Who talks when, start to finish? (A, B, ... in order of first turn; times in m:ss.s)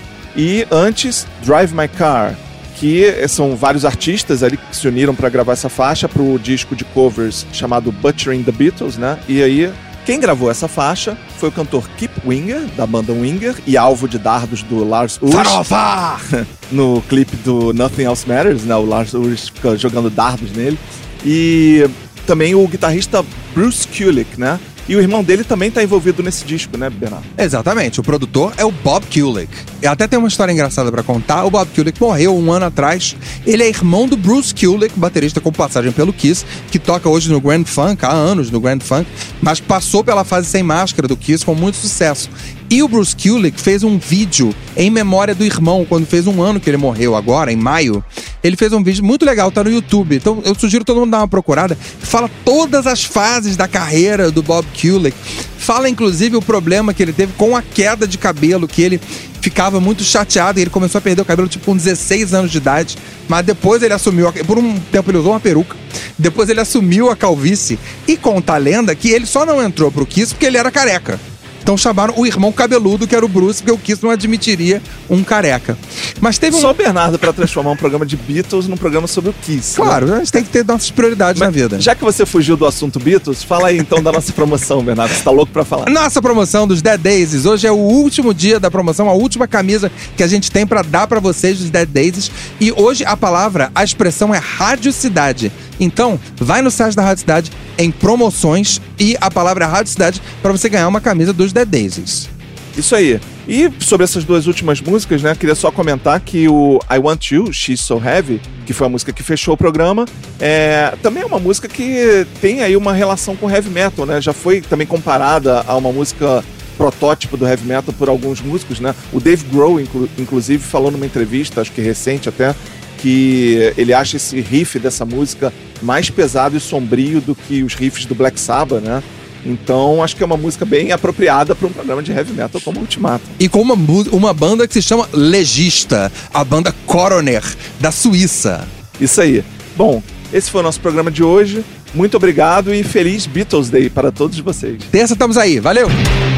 0:00.3-0:15.6 A
0:15.3-0:16.3 B
0:16.3-0:27.3 A
0:27.4-1:16.7 B
1:16.5-1:20.0 A
1:19.8-1:21.9 B
1:21.4-1:25.9 A
1:25.8-1:42.3 B
1:42.8-2:13.4 A
2:13.4-2:18.7 B
2:19.0-2:24.9 A
2:24.9-2:26.0 B